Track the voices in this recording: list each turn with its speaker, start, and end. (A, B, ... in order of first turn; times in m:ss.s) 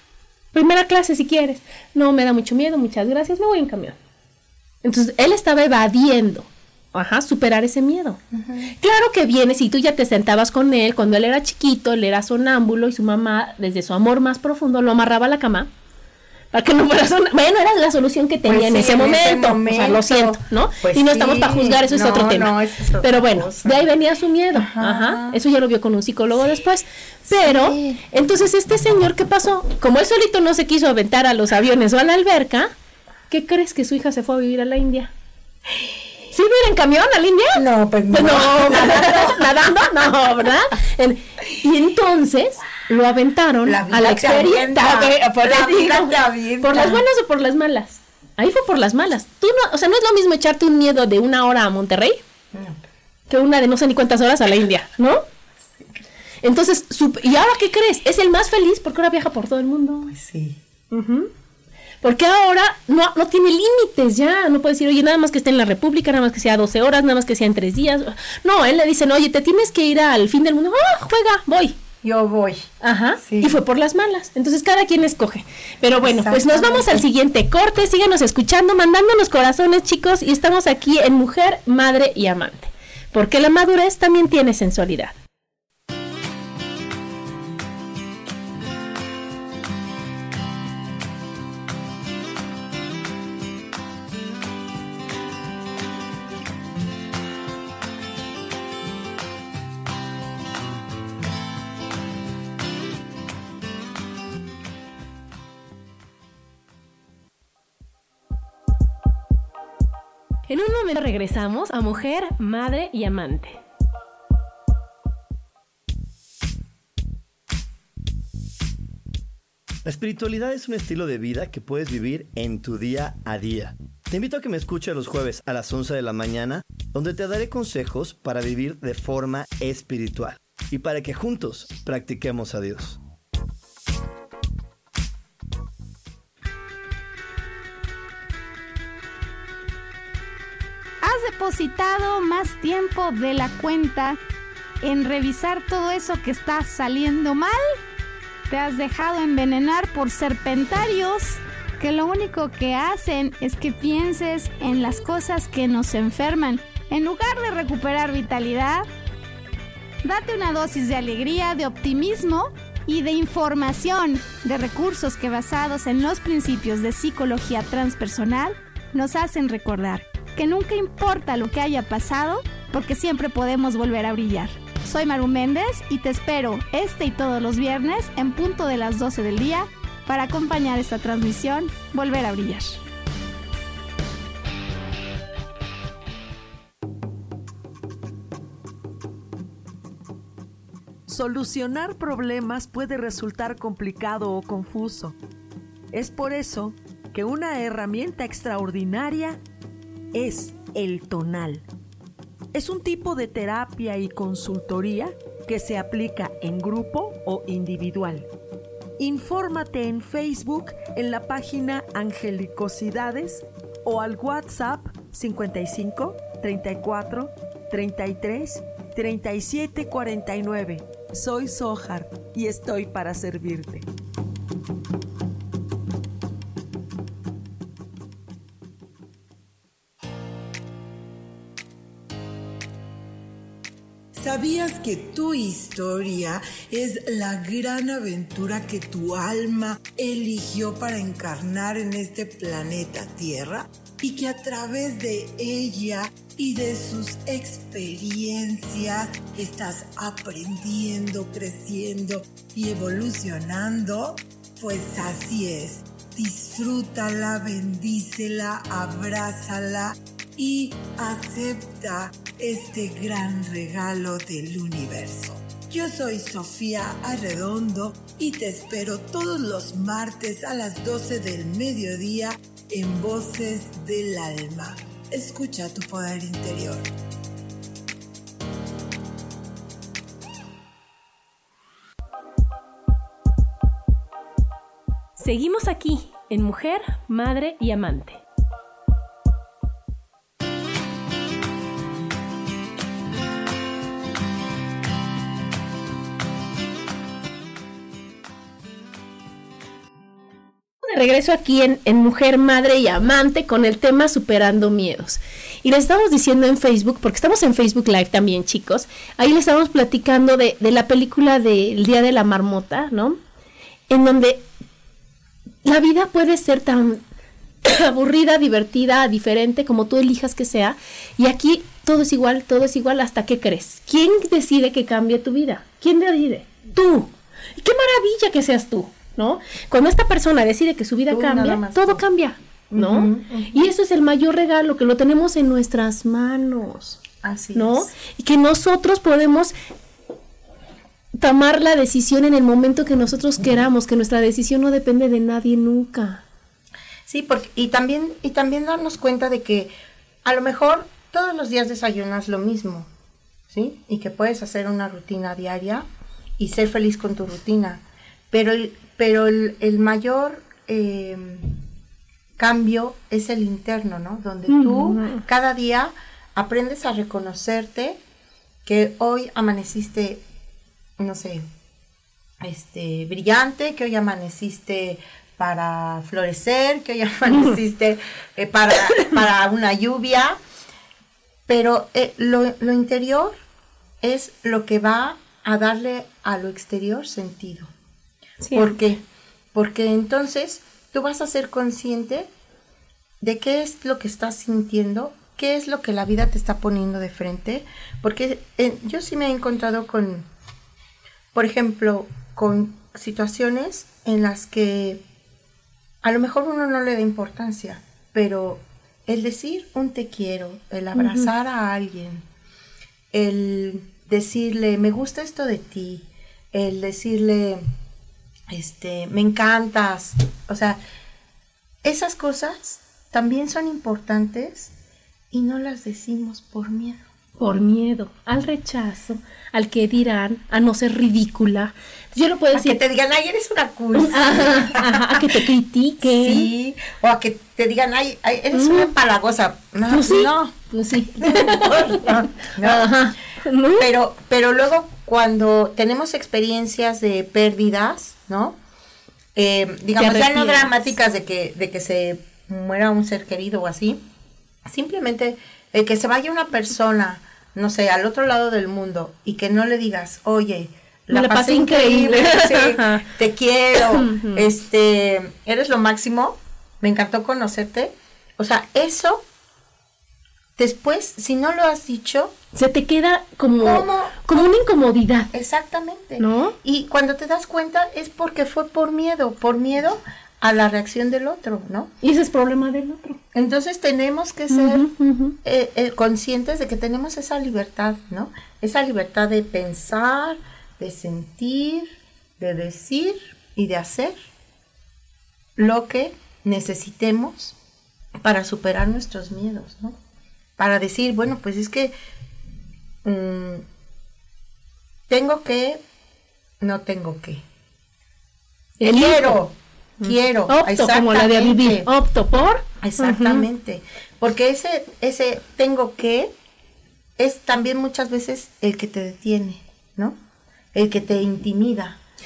0:00.5-0:04.0 A
0:04.8-0:08.2 A
0:08.3-0:08.7 B
0:08.8-0:15.7 A
0:16.5-0:32.7 A
0:18.4-0:23.8 B
0:24.5-0:25.4 B
0:27.3-0:28.0 B
0:33.3-0:35.1 A
0:36.3-0:52.2 A
0:37.5-0:39.5 B
0:43.6-0:47.0 B
0:52.5-0:52.8 B
0:53.3-0:55.2 A
0:56.4-1:00.1 A
1:00.1-1:00.6 B
1:00.9-1:01.3 A
1:02.0-1:11.8 A
1:12.0-1:13.6 B
1:12.8-1:25.2 A
1:16.0-1:17.0 B
1:50.5-1:53.6 A
1:59.8-2:13.0 C
2:21.0-2:24.2 D
2:24.8-2:27.6 D
2:28.5-2:38.9 D
2:40.0-3:02.8 D
3:11.1-3:15.2 E
3:15.9-3:19.4 E
3:20.1-3:21.6 E
3:22.5-3:28.3 E
3:29.0-3:43.9 E
3:54.1-4:36.9 F
4:45.2-4:48.2 A
5:00.8-5:13.2 A
5:13.9-5:14.4 A
5:15.6-5:17.0 A
5:17.6-5:37.0 A
5:31.1-5:32.0 B
5:32.7-5:33.7 B
5:37.2-5:37.9 B
5:37.5-5:39.5 A
5:41.2-5:46.2 A
5:47.0-5:49.7 B
5:50.2-5:52.9 B
5:53.5-5:55.8 B
5:56.4-6:01.6 B
6:02.4-6:08.0 B
6:04.5-6:05.2 A
6:08.6-6:10.2 B
6:11.0-6:11.4 B
6:12.4-6:20.4 B
6:17.3-6:17.6 A
6:21.5-6:23.4 B
6:24.0-6:27.7 B
6:28.4-6:28.8 A
6:28.5-6:32.3 B
6:33.2-6:40.3 B
6:41.3-6:45.0 B
6:46.0-6:52.2 B
6:50.9-6:51.3 A
6:53.1-6:57.6 B
6:58.5-7:00.8 B
7:01.8-7:04.7 B
7:05.3-7:07.0 B
7:07.4-7:12.8 A
7:12.5-7:15.4 B
7:13.9-7:16.5 A
7:16.0-7:20.5 B
7:18.5-7:18.9 A
7:19.9-7:23.9 A
7:21.2-7:23.0 B
7:23.8-7:28.6 B
7:29.3-7:34.0 B
7:30.0-7:30.9 A
7:34.6-7:49.2 B
7:41.1-7:43.0 A
7:43.8-7:44.5 A
7:50.6-7:52.3 B
7:52.5-7:55.3 A
7:53.6-7:54.5 B
7:55.3-8:01.9 B
7:56.2-7:56.5 A
8:02.0-8:03.2 A
8:03.3-8:04.9 B
8:04.5-8:05.4 A
8:05.4-8:14.2 B
8:15.6-8:17.6 B
8:18.2-8:20.0 B
8:20.6-8:21.9 B
8:23.0-8:23.6 B
8:25.1-8:25.8 B
8:26.6-8:27.4 B
8:28.8-8:29.4 A
8:28.8-8:31.9 B
8:30.0-8:33.4 A
8:32.8-8:36.3 B
8:37.2-8:40.2 B
8:40.7-8:42.0 B